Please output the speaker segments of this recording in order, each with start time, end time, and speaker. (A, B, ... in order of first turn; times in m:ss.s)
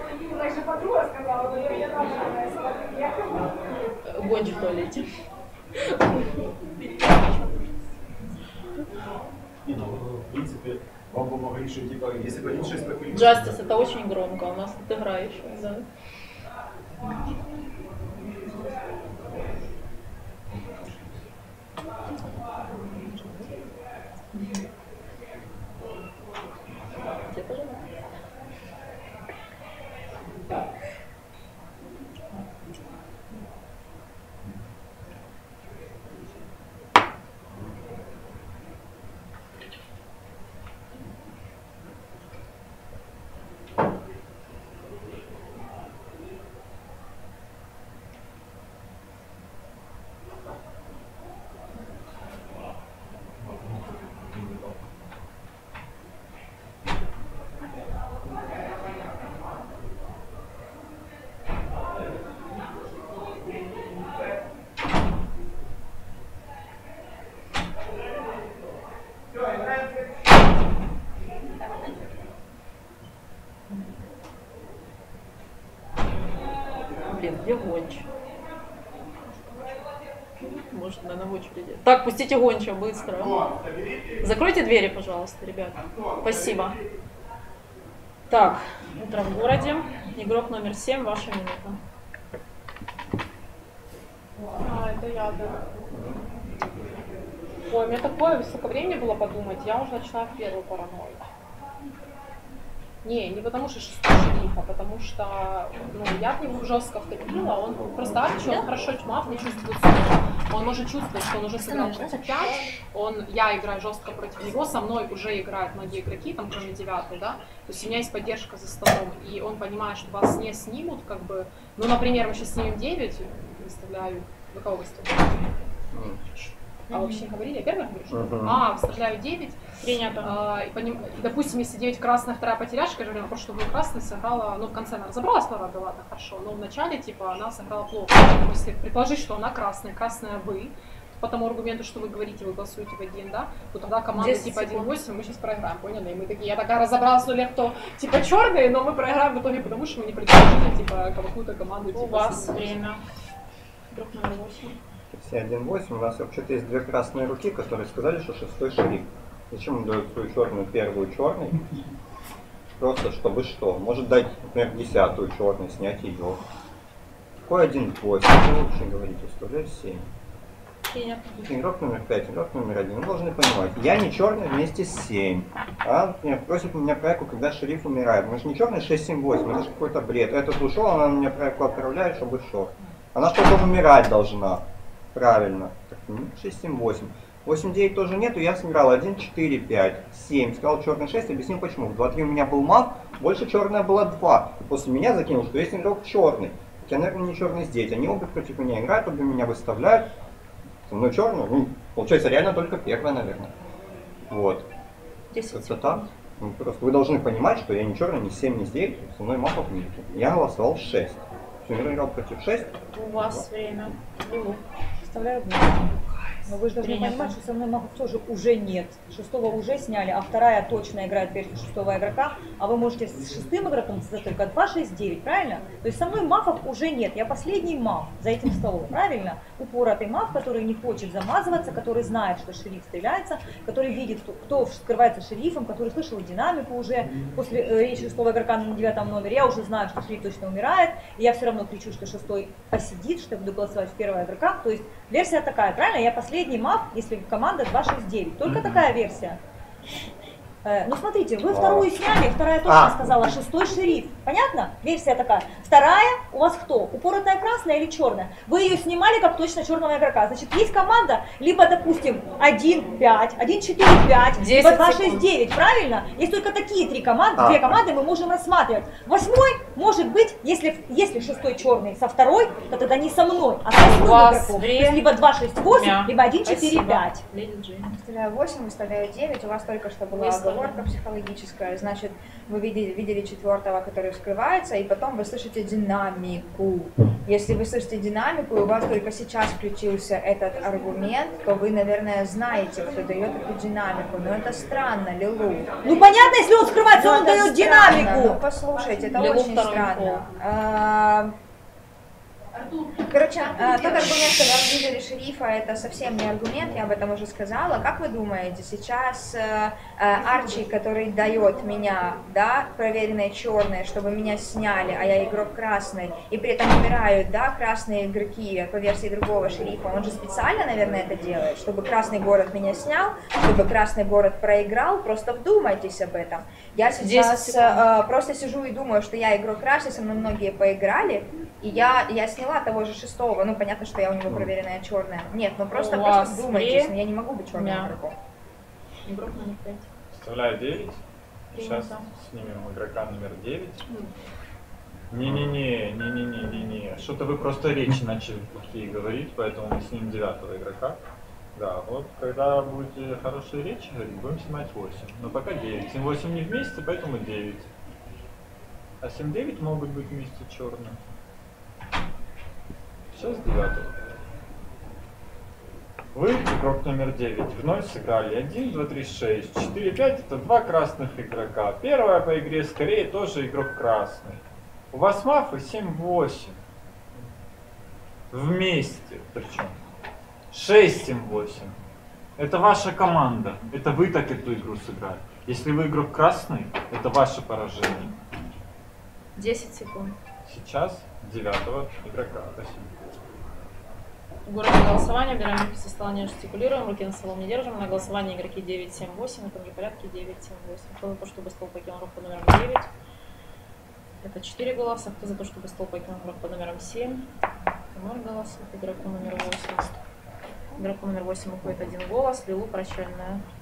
0:00.7-0:02.4 A
0:04.0-0:05.0 B
0:09.6-0:13.6 C
0:13.1-0:15.8 B
0:20.5-0:21.1 C
0:27.3-0:27.8 B
0:53.7-0:54.6 C
1:17.0-1:18.0 B
1:20.4-1:23.5 B
1:24.2-1:26.8 B
1:28.3-1:31.8 B
1:34.5-1:35.6 A
1:37.7-1:41.2 A
1:43.0-2:05.4 A
1:51.7-1:52.6 D
2:05.9-2:06.2 E
2:06.4-2:07.1 B
2:06.9-2:09.6 A
2:08.1-2:08.7 E
2:09.8-2:10.3 B
2:10.2-2:32.8 A
2:24.1-2:24.9 B
2:31.9-2:33.0 B
2:33.9-2:34.8 B
2:35.1-2:41.6 E
2:42.8-2:46.4 E
2:47.5-2:50.1 E
2:50.9-2:51.5 B
2:51.4-3:20.1 E
3:20.9-3:23.5 E
3:24.3-3:24.7 E
3:25.3-3:26.1 B
3:25.5-3:33.4 E
3:32.9-3:34.6 B
3:35.0-3:35.9 D
3:36.4-4:09.4 D
3:36.8-3:37.3 B
4:08.4-4:08.8 F
4:10.6-4:37.2 D
4:11.5-4:11.9 E
4:12.6-4:13.1 E
4:24.4-4:25.2 B
4:27.4-4:27.6 E
4:33.8-4:35.0 B
4:35.7-4:37.9 B
4:37.9-4:55.8 G
4:40.1-4:40.8 B
4:55.8-4:58.4 D
4:56.9-5:01.3 G
4:59.1-5:00.3 B
5:02.5-5:04.1 A
5:03.0-5:38.1 G
5:10.3-5:10.6 A
5:27.0-5:27.8 B
5:34.3-5:34.5 E
5:35.7-5:37.0 B
5:37.5-5:38.0 B
5:39.0-5:39.9 B
5:40.1-5:41.0 F
5:41.5-5:43.8 F
5:41.5-5:42.1 B
5:45.1-5:51.0 F
5:51.5-5:57.7 F
5:59.0-6:01.0 F
6:03.1-6:04.0 F
6:06.1-6:16.6 F
6:18.3-6:19.7 F
6:20.5-6:21.7 F
6:22.4-6:28.1 F
6:29.4-6:30.2 B
6:30.4-6:32.9 F
6:34.4-6:42.9 B
6:44.2-6:47.2 B
6:47.9-6:50.0 B
6:50.8-6:53.4 B